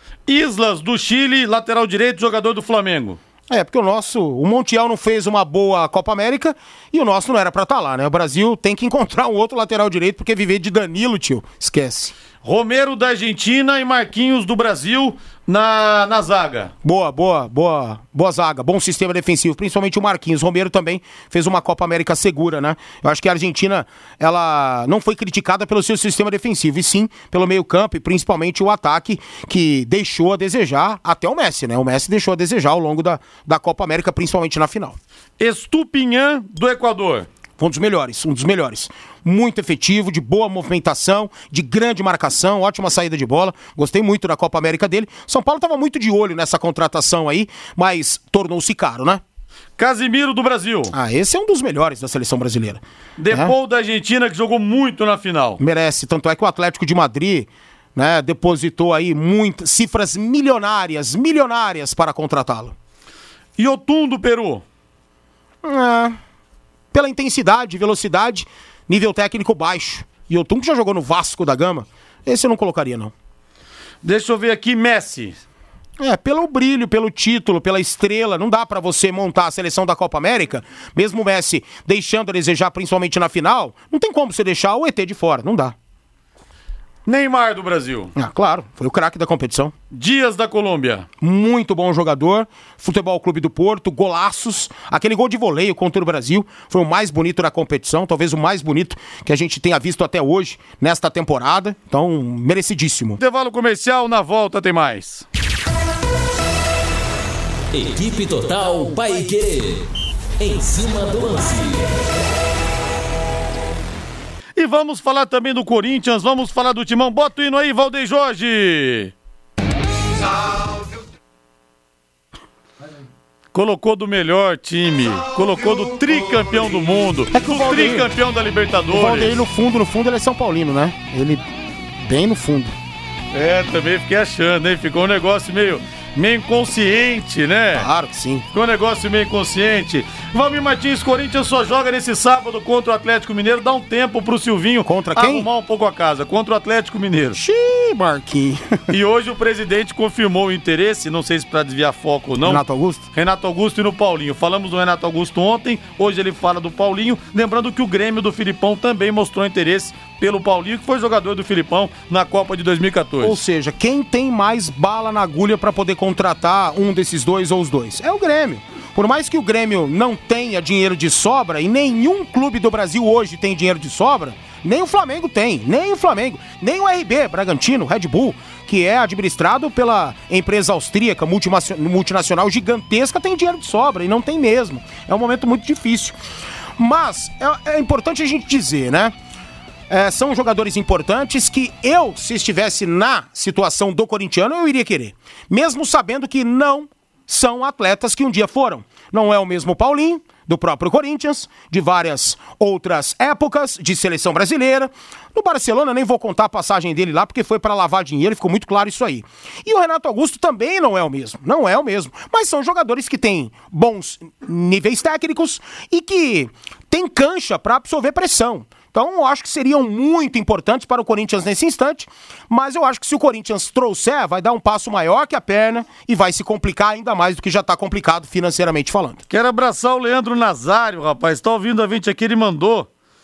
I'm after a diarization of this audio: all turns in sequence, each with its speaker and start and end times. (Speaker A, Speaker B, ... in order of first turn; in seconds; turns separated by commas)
Speaker A: 0.3-3.2, Speaker B: 3.5-12.1, Speaker A: 12.4-16.7, Speaker B: 16.8-35.0, Speaker A: 35.4-37.3, Speaker B: 37.6-49.2, Speaker A: 49.8-50.9, Speaker B: 50.9-53.5, Speaker A: 53.2-55.6, Speaker B: 55.6-62.7, Speaker A: 63.6-64.6, Speaker B: 65.6-66.2, Speaker B: 66.9-73.1, Speaker A: 74.0-75.4, Speaker B: 76.0-85.7, Speaker A: 87.0-88.1, Speaker B: 88.2-89.7, Speaker A: 89.9-91.1, Speaker B: 91.2-103.2, Speaker A: 103.2-105.2, Speaker C: 107.7-109.9, Speaker C: 110.4-112.0, Speaker A: 114.6-119.1, Speaker A: 123.5-129.4, Speaker B: 127.3-128.1, Speaker B: 128.9-131.4, Speaker B: 132.0-132.8, Speaker A: 133.3-137.9, Speaker B: 137.7-138.4, Speaker A: 138.5-147.4, Speaker B: 144.8-145.5, Speaker B: 147.3-148.9, Speaker A: 148.9-163.4, Speaker B: 152.4-153.1, Speaker B: 163.2-186.2, Speaker B: 186.8-189.1, Speaker B: 189.9-229.2, Speaker A: 229.3-232.9